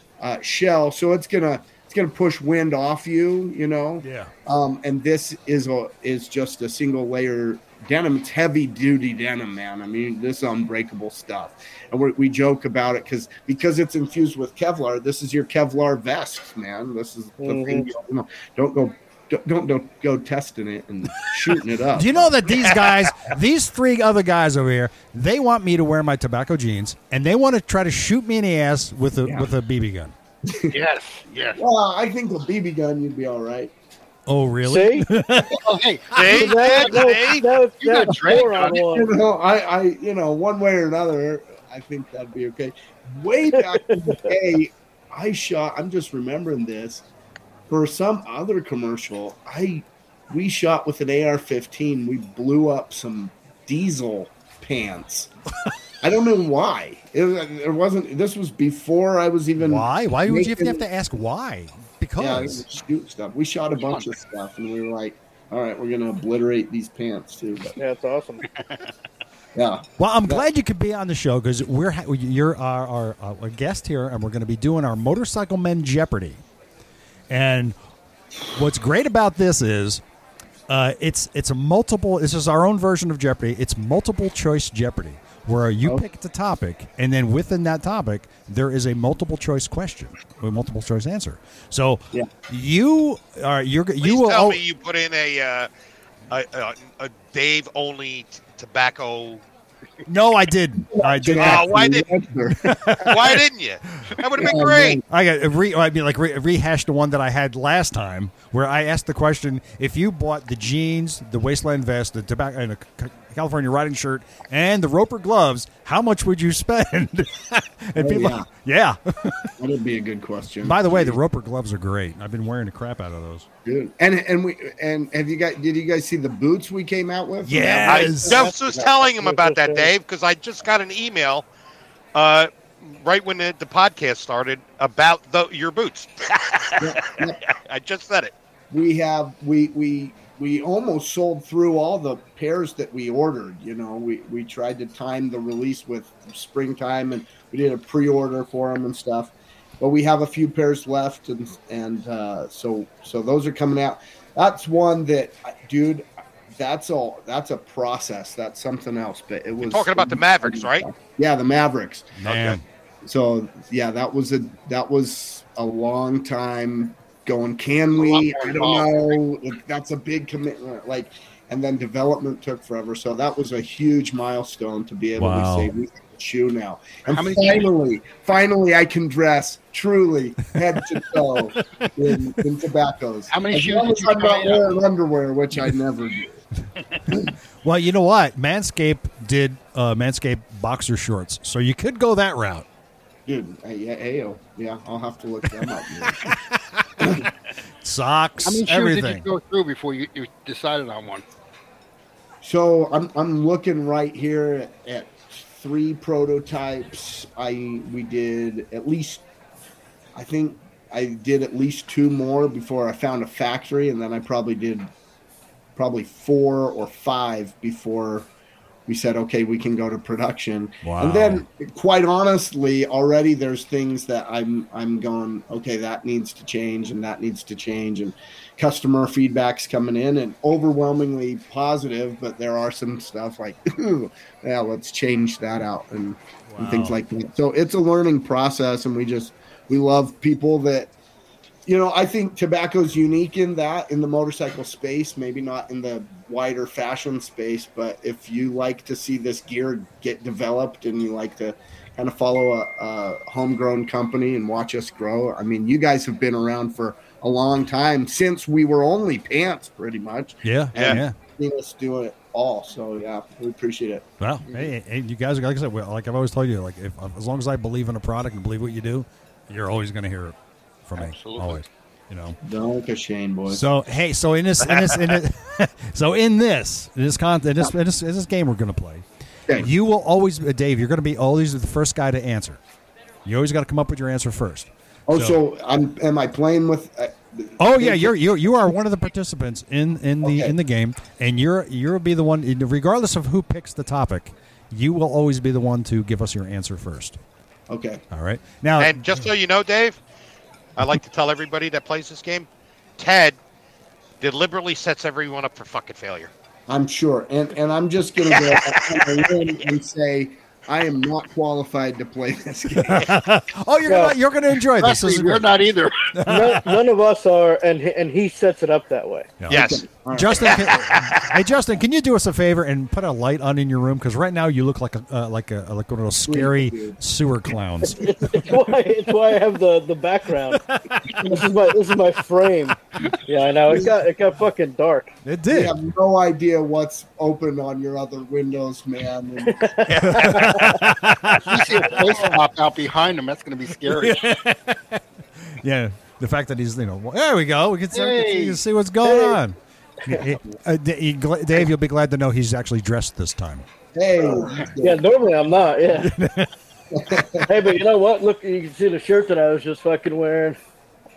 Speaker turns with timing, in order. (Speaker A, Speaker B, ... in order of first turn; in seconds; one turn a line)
Speaker A: 0.2-22.4
Speaker B: 4.0-4.3
Speaker C: 17.4-17.9
Speaker B: 21.9-30.1
Speaker A: 30.5-30.8
Speaker D: 30.7-31.6
Speaker A: 31.6-33.7
Speaker B: 34.3-35.6
Speaker C: 34.6-35.1
Speaker D: 35.6-38.8
Speaker E: 36.1-37.5
Speaker C: 36.2-39.1
Speaker A: 38.3-47.0
Speaker C: 43.9-44.2
Speaker A: 47.7-55.3
Speaker A: 56.0-60.8
Speaker B: 59.6-62.6
Speaker A: 62.2-67.8
Speaker D: 63.8-64.1
Speaker C: 67.8-68.4
Speaker D: 68.6-68.9
Speaker A: 69.5-70.4
Speaker B: 70.0-76.4
Speaker B: 77.3-77.8
Speaker B: 78.5-80.0
Speaker B: 80.7-94.6
Speaker E: 94.0-95.7
Speaker E: 96.3-99.4
Speaker B: 100.1-101.9
Speaker A: 100.8-103.1
Speaker E: 101.3-102.1
Speaker B: 102.6-103.4
Speaker E: 103.0-105.0
Speaker A: 104.4-105.0
Speaker B: 105.1-119.5
Speaker A: 118.0-118.5
Speaker A: 119.6-121.2
Speaker B: 120.6-123.5
Speaker A: 123.7-129.0
Speaker B: 127.5-128.4
Speaker E: 127.8-131.5
Speaker C: 129.2-129.9
Speaker E: 132.2-138.3
Speaker A: 136.8-137.4
Speaker A: 138.7-162.2
Speaker E: 159.6-160.9
Speaker B: 162.2-162.6
Speaker E: 162.2-162.6
Speaker A: 163.0-186.4
Speaker D: 168.0-169.2
Speaker B: 175.2-175.7
Speaker D: 177.1-177.7
Speaker D: 183.3-184.8
Speaker B: 187.6-192.7
Speaker A: 193.3-196.3
Speaker B: 196.2-197.1
Speaker B: 197.8-199.3
Speaker D: 198.4-201.2
Speaker A: 202.4-209.2
Speaker A: 210.2-214.9
Speaker A: 215.8-218.3
Speaker A: 218.9-240.9
Speaker B: 220.8-221.4
Speaker B: 236.5-237.0
Speaker A: 241.7-264.7
Speaker B: 260.4-261.2
Speaker E: 260.8-261.0
Speaker B: 264.2-272.4
Speaker D: 271.0-271.6
Speaker A: 272.4-273.7
Speaker B: 273.5-282.6
Speaker E: 274.7-275.2
Speaker B: 283.2-285.4
Speaker A: 285.1-288.1
Speaker B: 287.6-297.2
Speaker A: 290.2-290.5
Speaker A: 297.7-298.0
Speaker B: 298.1-299.2
Speaker E: 298.8-300.0
Speaker E: 300.8-302.5
Speaker E: 303.0-303.4
Speaker E: 304.2-306.3
Speaker A: 306.7-313.1
Speaker E: 308.3-309.2
Speaker B: 312.8-315.5
Speaker C: 313.9-314.2
Speaker D: 314.8-316.1
Speaker B: 316.1-316.8
Speaker C: 316.2-319.3
Speaker B: 319.4-328.5
Speaker E: 319.5-321.4
Speaker A: 319.5-320.8
Speaker A: 326.3-327.0
Speaker C: 327.9-330.6
Speaker B: 330.5-331.2
Speaker A: 331.1-331.5
Speaker C: 331.2-335.1
Speaker B: 335.2-335.8
Speaker A: 335.5-339.8
Speaker C: 339.4-340.8
Speaker E: 339.9-340.7
Speaker B: 340.0-341.9
Speaker D: 341.4-344.3
Speaker A: 342.0-342.4
Speaker B: 343.9-353.6
Speaker D: 347.9-348.6
Speaker C: 349.0-349.4
Speaker A: 353.9-355.1
Speaker C: 354.3-356.1
Speaker B: 355.9-356.5
Speaker A: 356.9-357.6
Speaker C: 357.5-360.6